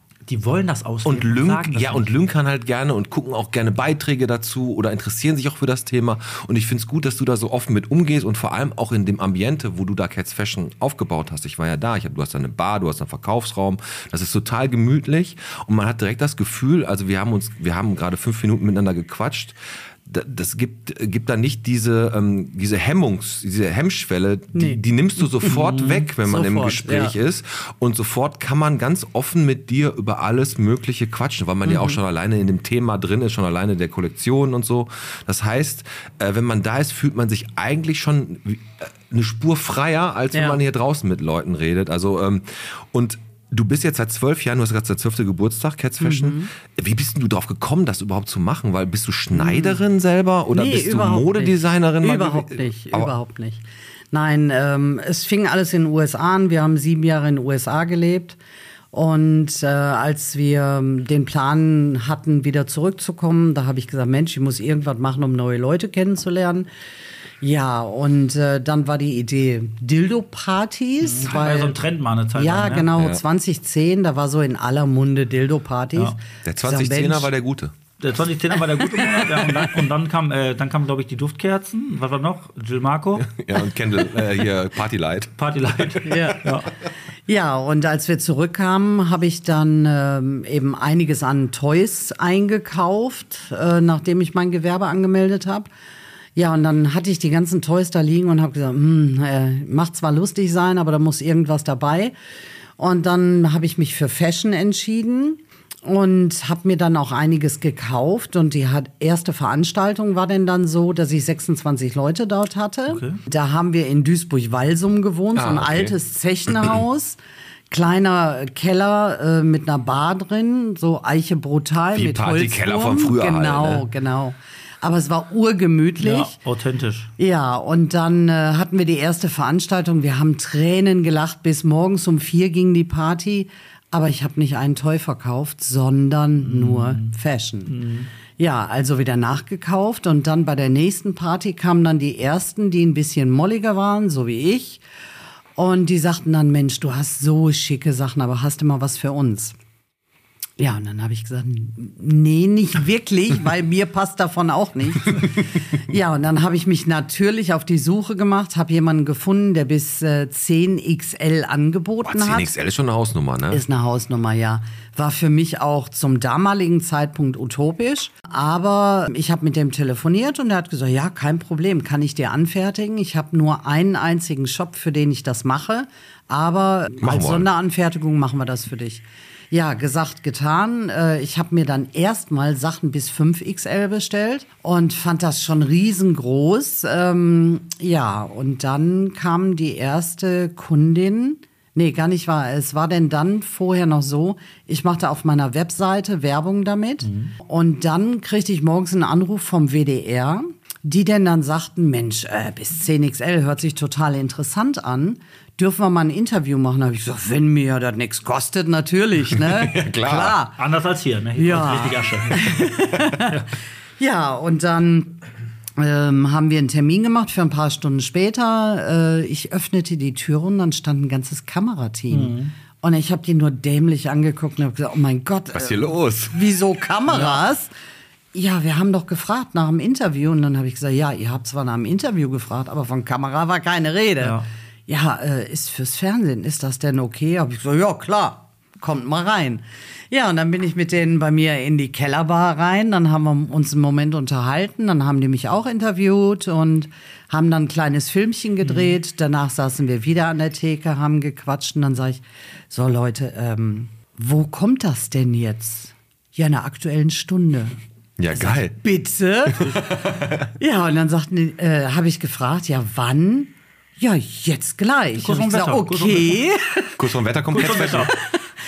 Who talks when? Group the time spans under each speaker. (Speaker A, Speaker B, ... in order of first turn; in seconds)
Speaker A: 0.3-2.1, 71.0-72.9, 78.0-83.3, 85.4-86.7, 112.9-113.2, 126.0-127.1, 136.4-137.2, 137.7-138.1, 197.0-197.3, 210.6-212.7, 222.1-222.5, 227.1-227.4, 234.2-234.5, 248.6-249.0, 265.2-266.4, 267.5-268.2
Speaker B: 1.1-53.1, 73.0-73.2, 76.4-77.7, 83.2-86.3, 115.3-116.0, 121.9-123.9, 162.1-163.6, 177.0-177.5, 209.3-210.4, 225.5-226.4, 258.2-258.8, 259.5-260.5, 267.0-268.1
Speaker C: 24.5-24.8, 25.3-27.1, 31.6-32.0, 40.3-40.6, 46.0-46.5, 49.4-49.8, 50.5-58.4, 58.9-66.7, 67.4-71.8, 72.3-77.3, 86.0-86.5, 87.3-95.7, 96.4-102.1, 102.8-117.2, 117.7-126.4, 127.2-137.8, 138.4-144.8, 145.6-149.6, 150.6-162.5, 163.5-210.6, 211.4-213.4, 214.0-215.2, 215.8-227.7, 228.3-257.8, 258.4-267.0, 268.1-268.4